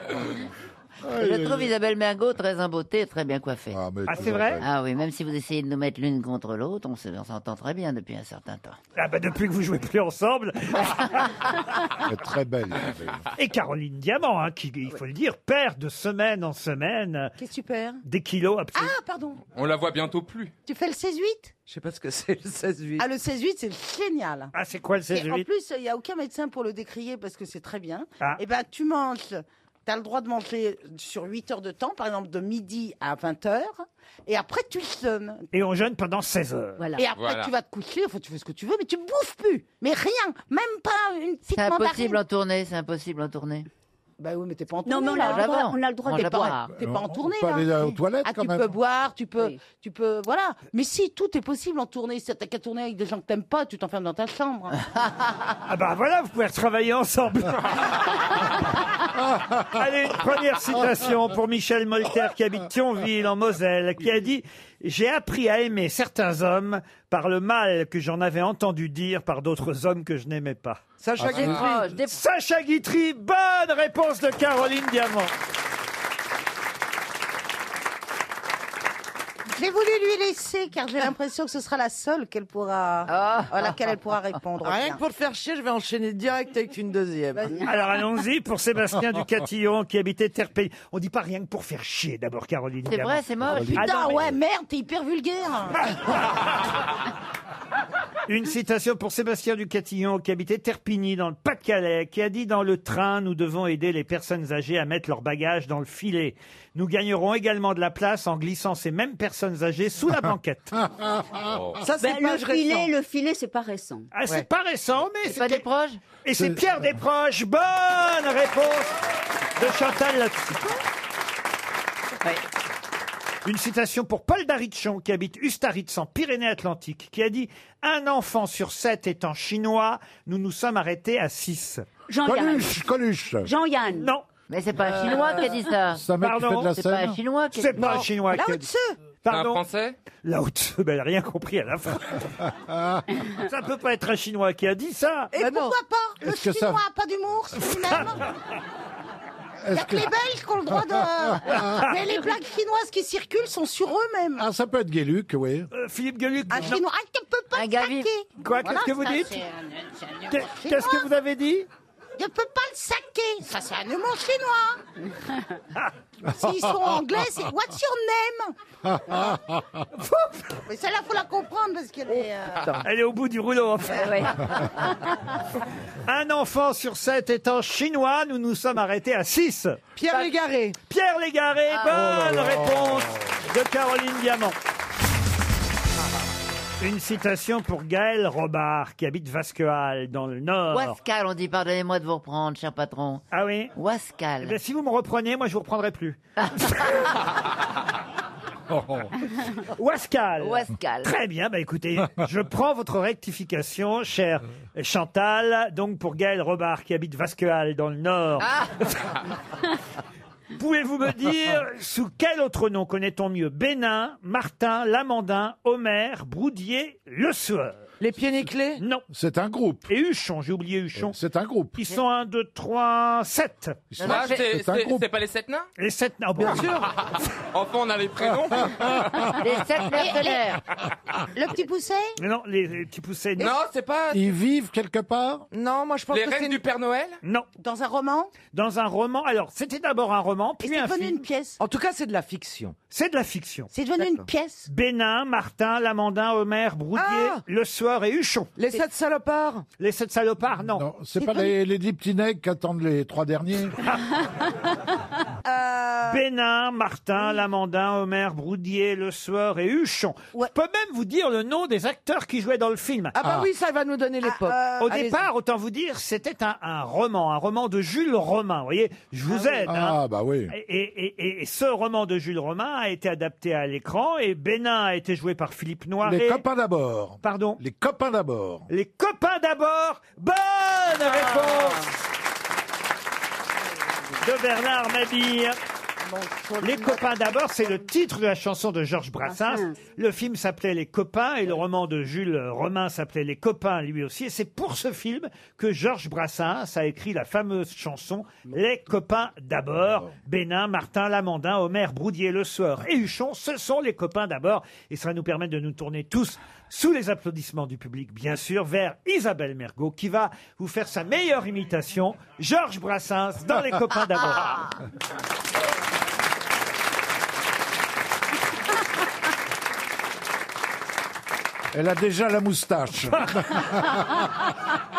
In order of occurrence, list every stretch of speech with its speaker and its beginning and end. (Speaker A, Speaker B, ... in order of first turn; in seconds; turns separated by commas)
Speaker A: 1.1-1.7, Speaker B: 1.1-3.8, Speaker A: 3.7-4.7, Speaker C: 4.1-4.6, Speaker B: 4.6-8.8, Speaker C: 8.9-11.9, Speaker A: 12.0-13.2, Speaker C: 13.3-17.3, Speaker D: 17.4-18.0, Speaker C: 18.0-18.9, Speaker D: 18.7-19.4, Speaker E: 19.5-20.5, Speaker D: 20.6-21.5, Speaker F: 21.6-23.1, Speaker D: 23.0-24.5, Speaker C: 24.5-25.5, Speaker D: 25.1-35.5, Speaker C: 35.5-36.8, Speaker G: 36.8-37.1, Speaker D: 37.0-42.2, Speaker E: 37.1-37.5, Speaker B: 41.5-43.7, Speaker D: 44.2-45.6, Speaker G: 44.8-46.6, Speaker B: 45.2-46.7, Speaker D: 46.7-54.8, Speaker A: 46.8-48.7, Speaker C: 55.7-58.4, Speaker C: 59.6-70.8, Speaker F: 71.0-71.9, Speaker A: 71.2-71.5, Speaker B: 71.2-72.1, Speaker C: 71.5-75.3, Speaker D: 79.5-85.0, Speaker B: 83.1-83.7, Speaker F: 84.6-87.6, Speaker D: 87.4-87.7, Speaker C: 87.6-93.2, Speaker B: 92.8-94.2, Speaker A: 93.4-94.3, Speaker D: 93.7-95.8, Speaker C: 98.3-110.8, Speaker E: 111.4-111.8, Speaker F: 111.8-112.9, Speaker G: 111.9-114.1, Speaker C: 114.1-115.6, Speaker B: 115.2-116.0, Speaker C: 116.2-118.9, Speaker C: 119.5-120.7, Speaker C: 123.4-131.9, Speaker G: 132.1-132.8, Speaker A: 132.2-133.5, Speaker G: 133.4-134.1, Speaker C: 133.9-134.2, Speaker B: 134.5-136.1, Speaker G: 135.1-135.5, Speaker A: 135.9-137.2, Speaker C: 136.2-136.7, Speaker B: 136.7-138.0, Speaker C: 137.5-138.7, Speaker F: 137.8-138.1, Speaker D: 138.3-138.9, Speaker C: 139.2-139.6, Speaker E: 139.3-139.9, Speaker C: 140.2-142.4, Speaker C: 143.2-145.3, Speaker D: 145.3-148.3, Speaker F: 145.4-145.8, Speaker A: 146.2-146.8, Speaker A: 149.6-150.1, Speaker D: 149.7-154.4, Speaker A: 151.4-151.7, Speaker A: 154.4-155.7, Speaker C: 155.7-156.8, Speaker D: 156.5-161.1, Speaker B: 157.5-158.1, Speaker C: 158.4-159.4, Speaker C: 160.3-161.7, Speaker D: 162.2-164.8, Speaker D: 166.2-168.5, Speaker A: 168.9-169.8, Speaker C: 169.9-170.6, Speaker D: 170.7-172.8, Speaker C: 172.8-174.3, Speaker G: 174.0-174.4, Speaker C: 176.0-179.8, Speaker F: 179.9-180.8, Speaker C: 180.9-184.6, Speaker B: 181.7-182.1, Speaker A: 181.9-183.0, Speaker C: 186.8-191.0, Speaker B: 190.7-193.2, Speaker C: 193.3-193.7, Speaker B: 193.7-194.6, Speaker C: 194.4-197.1, Speaker B: 196.5-196.9, Speaker A: 198.7-199.1, Speaker C: 199.5-209.2, Speaker B: 200.4-201.1, Speaker C: 210.5-217.8, Speaker F: 218.0-218.8, Speaker C: 218.8-219.1, Speaker A: 219.1-219.9, Speaker C: 219.9-221.2, Speaker A: 221.0-221.8, Speaker C: 221.8-223.8, Speaker A: 223.9-225.1, Speaker B: 224.0-224.3, Speaker E: 224.0-225.7, Speaker C: 225.8-226.7, Speaker F: 226.4-226.9, Speaker E: 227.2-229.3, Speaker B: 229.4-230.6, Speaker D: 229.9-230.4, Speaker D: 231.3-232.1, Speaker C: 232.2-233.5, Speaker E: 233.4-234.3, Speaker A: 234.1-235.5, Speaker F: 235.5-236.6, Speaker E: 236.1-237.2, Speaker D: 237.6-238.3, Speaker C: 238.5-241.2, Speaker D: 240.6-241.6, Speaker F: 241.6-242.7, Speaker C: 242.9-243.7, Speaker D: 243.7-244.7, Speaker F: 244.0-244.2, Speaker C: 244.7-248.5, Speaker F: 246.9-247.4, Speaker F: 248.6-249.6, Speaker C: 249.8-250.8, Speaker A: 250.7-253.8, Speaker D: 255.4-256.2, Speaker C: 256.1-263.1, Speaker F: 263.1-265.2, Speaker A: 263.2-263.5, Speaker D: 264.2-265.0, Speaker C: 264.8-270.0, Speaker D: 269.3-269.7, Speaker A: 269.7-270.5, Speaker C: 270.5-276.4, Speaker A: 276.0-278.7, Speaker C: 277.2-277.6, Speaker C: 278.7-281.9, Speaker C: 284.2-285.6, Speaker D: 286.0-287.2, Speaker C: 286.6-314.7, Speaker G: 289.2-289.8, Speaker A: 321.7-323.9